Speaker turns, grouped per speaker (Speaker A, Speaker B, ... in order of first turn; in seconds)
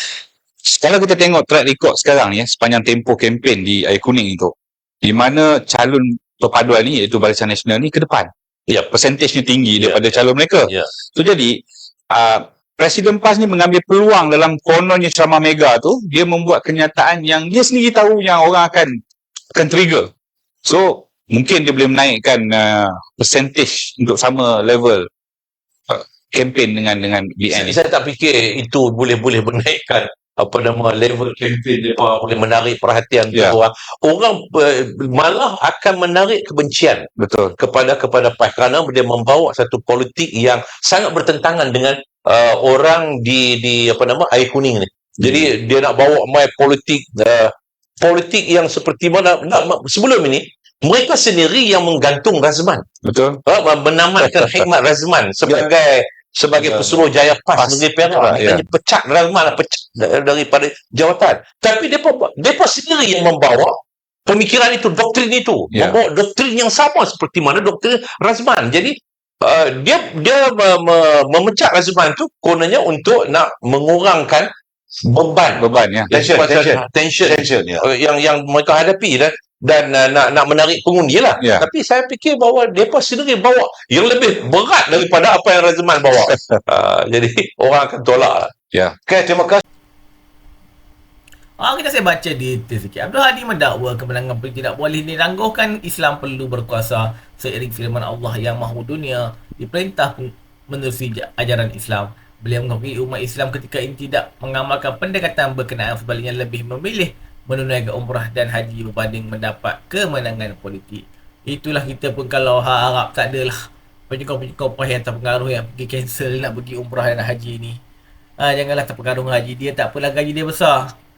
Speaker A: 0.7-8.3, 8.9-11.6, 12.1-19.0, 19.6-20.1, 20.7-25.1, 25.9-27.8, 37.2-37.5, 53.0-53.4, 57.6-58.6, 75.6-76.1, 81.4-81.7, 88.7-89.0
Speaker B: 27.5-37.1, 37.6-52.8, 53.5-63.7, 64.3-74.5, 75.1-88.5
Speaker C: 56.6-57.0, 76.1-77.8, 89.1-89.6
Speaker D: 91.6-113.6, 114.1-117.8, 118.4-120.8